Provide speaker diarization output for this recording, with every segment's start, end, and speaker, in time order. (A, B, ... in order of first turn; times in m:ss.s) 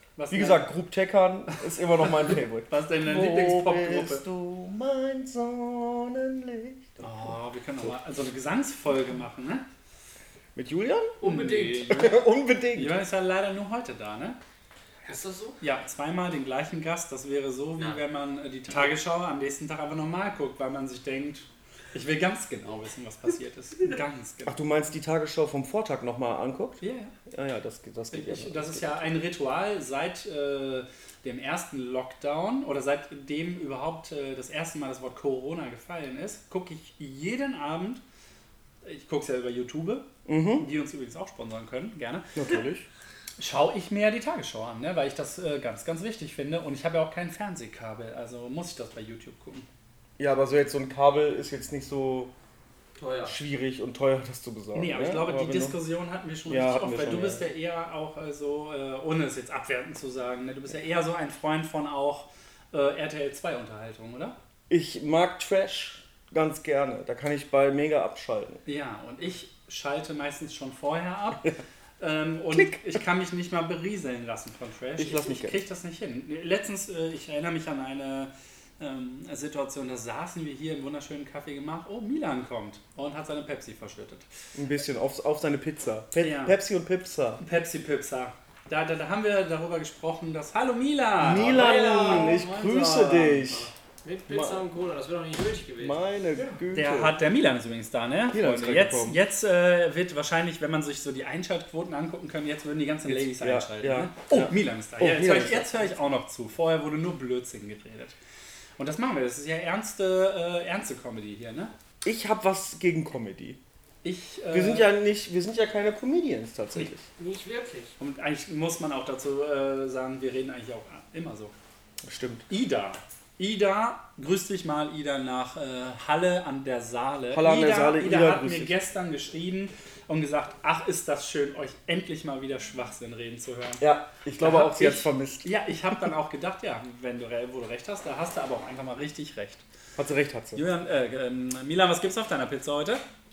0:00.2-0:00.7 A
0:00.3-0:07.3 B
0:02.1-0:04.2 A
0:07.0-0:09.6 A
0:10.5-0:11.2 B
0:11.2-0:12.1 C
0:11.2-0:12.2 A
0:11.9-0:13.0 B
0:12.7-0:14.4 A
0:15.0-0:15.6 C
0:15.6-0:24.6 A
0:24.4-0:29.1 B
0:26.8-0:27.1 A
0:28.1-0:38.0 A
0:38.8-0:42.3 A
0:40.2-0:40.7 B
0:42.4-0:42.8 B
0:43.4-0:49.6 A
0:50.2-0:52.3 B
0:53.0-0:53.4 C
0:53.2-0:55.8 B
0:54.7-1:04.4 A
0:56.5-0:57.4 B
1:04.7-1:08.6 B
1:08.6-1:24.2 A
1:15.0-1:15.6 B
1:24.5-1:27.4 B
1:26.2-1:26.6 A
1:27.4-1:33.7 A
1:31.2-1:33.7 B
1:31.4-1:32.4 C
1:34.0-1:36.0 C
1:34.3-1:34.6 B
1:35.8-1:37.2 B
1:36.4-1:48.2 A
1:38.3-1:39.2 B
1:43.0-1:46.0 B
1:48.8-1:51.7 A
1:52.0-1:53.6 B
1:54.0-1:54.9 A
1:54.5-1:57.1 B
1:57.2-1:57.9 C
1:58.0-2:01.5 A
2:02.0-2:02.5 B
2:02.5-2:13.8 A
2:07.3-2:08.7 B
2:13.8-2:15.5 B
2:14.4-2:19.6 A
2:20.0-2:20.6 B
2:20.5-2:23.0 A